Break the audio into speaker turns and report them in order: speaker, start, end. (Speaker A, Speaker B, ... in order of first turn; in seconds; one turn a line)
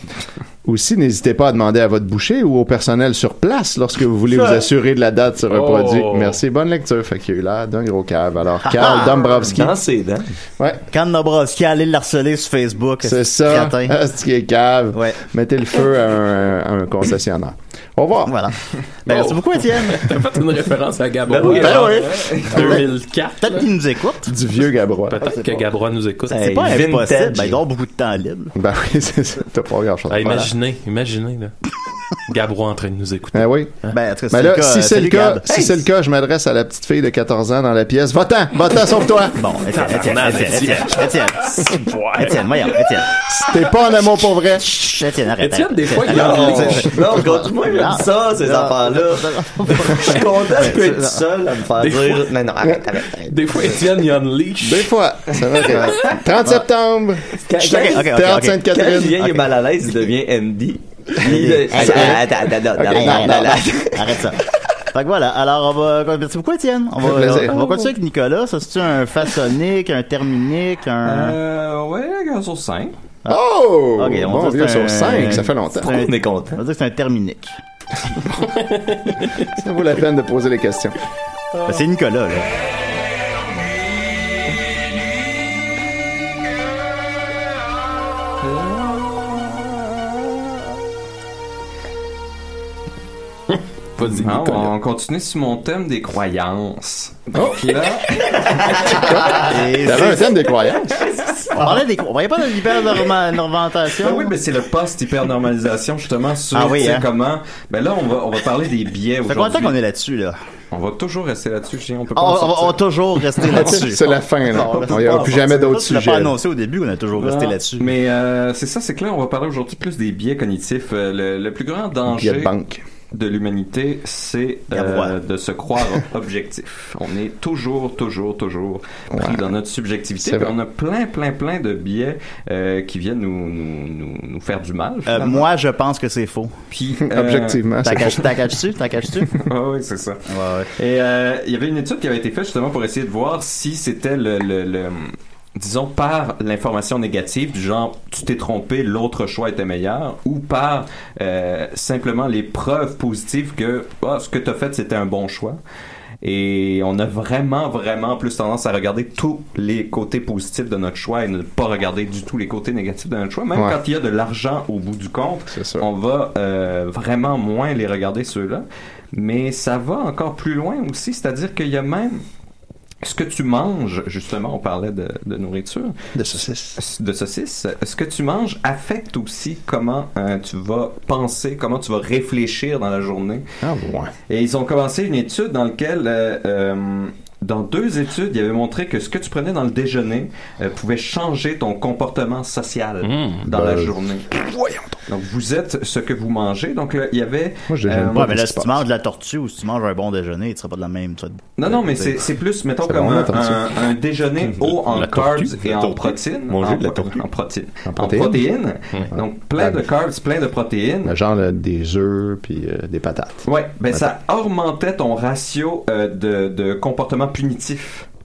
Speaker A: 0.6-9.8
Speaker B: 5.5-6.4
Speaker C: 8.7-9.5
Speaker D: 9.4-10.3
Speaker C: 10.9-14.0
Speaker A: 13.0-18.4
Speaker C: 14.9-15.2
Speaker C: 18.3-20.1
Speaker B: 19.1-23.7
Speaker D: 21.3-21.9
Speaker C: 21.3-22.9
Speaker E: 21.6-22.6
Speaker C: 23.4-24.3
Speaker A: 24.3-25.3
Speaker B: 25.1-26.5
Speaker C: 25.2-25.6
Speaker C: 26.3-28.5
Speaker D: 26.3-27.6
Speaker A: 28.6-30.5
Speaker B: 30.1-31.6
Speaker B: 32.2-34.0
Speaker A: 33.3-33.7
Speaker C: 33.9-35.5
Speaker A: 34.3-39.4
Speaker C: 39.4-43.2
Speaker B: 39.7-43.6
Speaker A: 43.3-44.6
Speaker C: 44.6-51.2
Speaker B: 45.4-47.0
Speaker D: 46.1-53.4
Speaker B: 51.8-52.2
Speaker B: 53.3-54.9
Speaker A: 54.6-59.4
Speaker D: 57.4-64.1
Speaker C: 57.6-59.4
Speaker C: 61.2-62.3
Speaker A: 61.7-62.2
Speaker A: 62.8-63.6
Speaker C: 62.9-64.4
Speaker C: 64.9-71.4
Speaker A: 67.0-67.9
Speaker E: 71.0-72.9
Speaker A: 73.3-76.0
Speaker C: 74.0-77.6
Speaker D: 75.8-76.6
Speaker B: 78.6-79.5
Speaker A: 79.5-81.0
Speaker C: 81.6-82.5
Speaker E: 88.5-89.3
Speaker B: 94.0-94.7
Speaker E: 94.0-99.3
Speaker A: 97.3-97.7
Speaker A: 98.8-101.0
Speaker C: 99.1-100.4
Speaker C: 101.5-104.3
Speaker E: 104.0-109.8
Speaker C: 106.5-107.1
Speaker C: 109.3-110.4
Speaker E: 110.7-112.8
Speaker C: 112.1-118.0
Speaker E: 113.4-113.7
Speaker A: 113.5-116.3
Speaker E: 114.8-115.4
Speaker E: 117.1-122.5
Speaker A: 122.1-122.8
Speaker E: 123.1-135.5
Speaker C: 124.7-125.2
Speaker A: 129.1-129.4
Speaker A: 130.2-130.5
Speaker C: 135.1-136.6
Speaker E: 136.7-137.7
Speaker A: 137.0-138.6
Speaker C: 137.8-139.5
Speaker E: 139.4-140.2
Speaker C: 140.3-140.7
Speaker E: 140.8-155.6
Speaker E: 156.2-172.2
Speaker A: 165.5-165.9
Speaker E: 173.0-176.0
Speaker A: 176.1-176.8
Speaker E: 176.8-183.4
Speaker A: 183.6-184.1
Speaker E: 184.3-194.3
Speaker B: 193.0-193.4
Speaker A: 193.4-195.0
Speaker E: 195.1-198.3
Speaker A: 197.7-198.8
Speaker C: 198.1-201.9
Speaker E: 201.6-211.1
Speaker A: 202.8-203.7
Speaker B: 204.9-205.7
Speaker D: 205.8-207.2
Speaker A: 207.8-208.5
Speaker A: 209.1-209.8
Speaker A: 211.1-214.1
Speaker E: 213.4-218.1